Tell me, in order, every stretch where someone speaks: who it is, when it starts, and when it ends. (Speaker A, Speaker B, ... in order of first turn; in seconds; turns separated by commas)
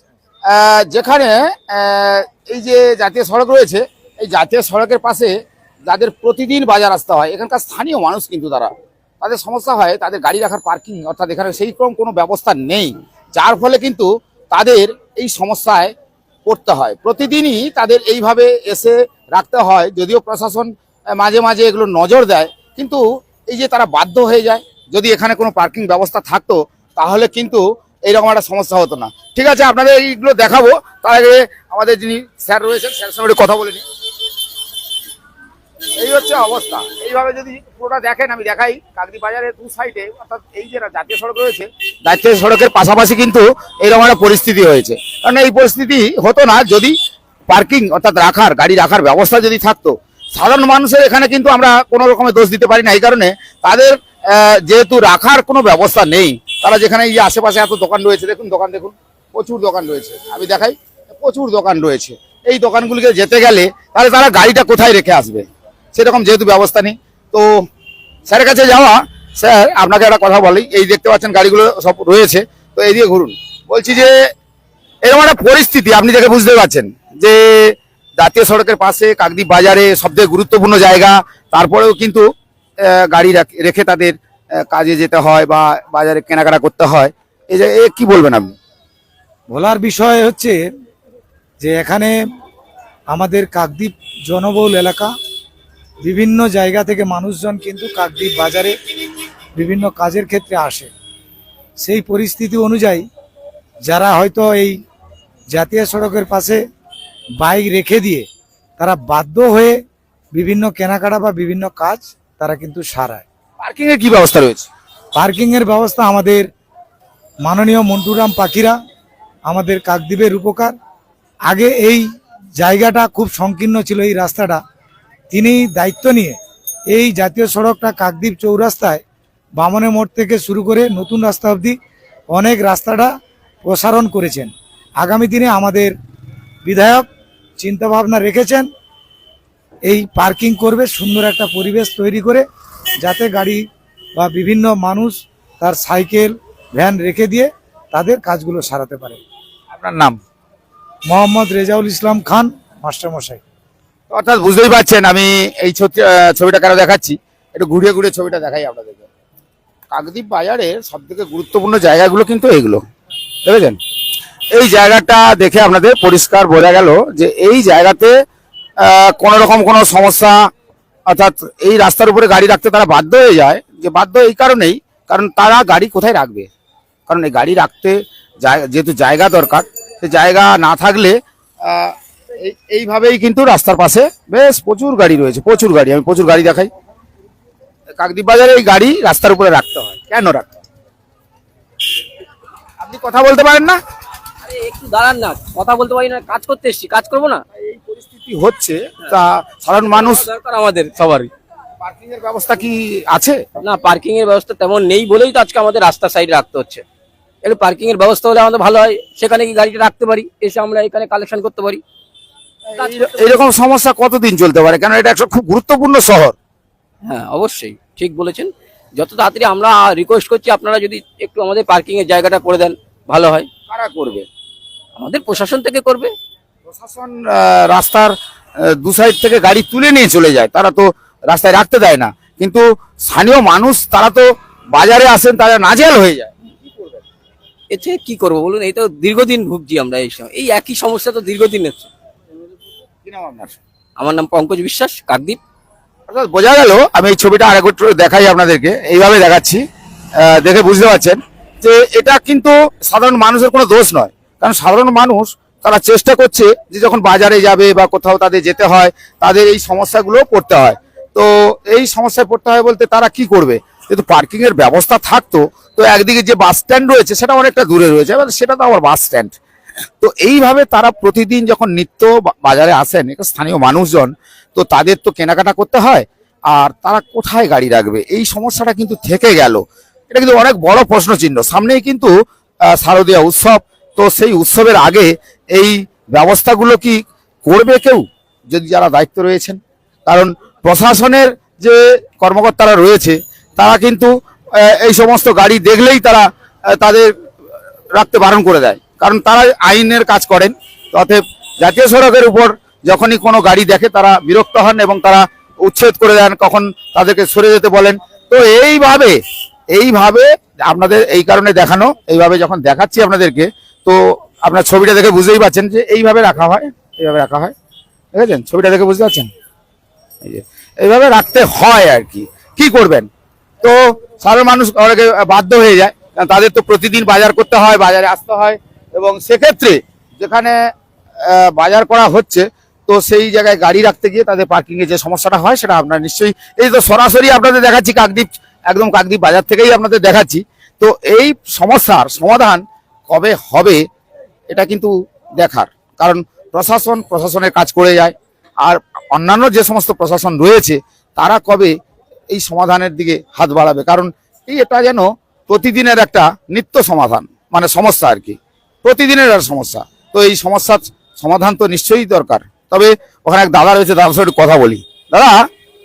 Speaker A: 0.5-5.3, Speaker A: 5.9-15.9, Speaker A: 16.5-33.8, Speaker A: 36.0-47.0, Speaker A: 47.5-67.5, Speaker A: 68.3-74.1, Speaker A: 75.0-82.2, Speaker A: 82.9-84.2, Speaker A: 84.7-88.5, Speaker B: 89.5-90.6, Speaker B: 91.6-92.2, Speaker B: 93.1-95.1, Speaker B: 96.0-98.8, Speaker B: 99.6-100.9, Speaker B: 101.8-103.0, Speaker B: 103.9-104.8, Speaker B: 105.5-106.6, Speaker B: 107.4-108.3, Speaker B: 108.8-109.8, Speaker B: 110.3-113.2, Speaker A: 113.6-114.7, Speaker B: 115.2-116.5, Speaker B: 117.4-118.8, Speaker B: 119.5-120.7, Speaker B: 121.5-122.1, Speaker B: 122.6-124.6, Speaker B: 125.3-126.4, Speaker B: 126.9-129.0, Speaker B: 129.6-131.8, Speaker B: 132.3-133.1, Speaker B: 133.6-135.9, Speaker B: 136.7-137.1, Speaker B: 137.6-138.7, Speaker B: 139.9-142.4, Speaker B: 143.0-143.6, Speaker B: 144.2-149.2, Speaker A: 149.7-150.2, Speaker B: 151.1-153.4, Speaker A: 154.1-159.1, Speaker A: 159.9-162.8, Speaker A: 163.4-163.8, Speaker A: 164.5-168.1, Speaker A: 168.8-170.5, Speaker A: 171.1-176.5, Speaker A: 177.1-186.7, Speaker A: 188.0-190.5, Speaker A: 192.8-193.8, Speaker C: 194.5-197.4, Speaker A: 197.6-200.2, Speaker C: 199.9-201.3, Speaker A: 201.8-203.4, Speaker C: 203.6-206.8, Speaker C: 207.4-211.8, Speaker A: 212.7-216.4, Speaker C: 212.8-213.3, Speaker C: 217.1-223.5, Speaker A: 223.7-224.3, Speaker C: 225.0-226.1, Speaker A: 226.7-228.1, Speaker A: 228.7-237.0, Speaker C: 237.7-241.9, Speaker A: 243.1-243.6, Speaker C: 244.0-245.4, Speaker A: 246.1-249.6, Speaker A: 250.2-269.4, Speaker A: 270.0-282.1, Speaker A: 282.7-297.1, Speaker A: 297.9-309.2, Speaker A: 309.7-317.5, Speaker A: 318.1-319.3, Speaker A: 320.2-323.1, Speaker A: 323.6-330.6, Speaker A: 331.2-343.8, Speaker A: 344.5-351.7, Speaker A: 352.3-365.4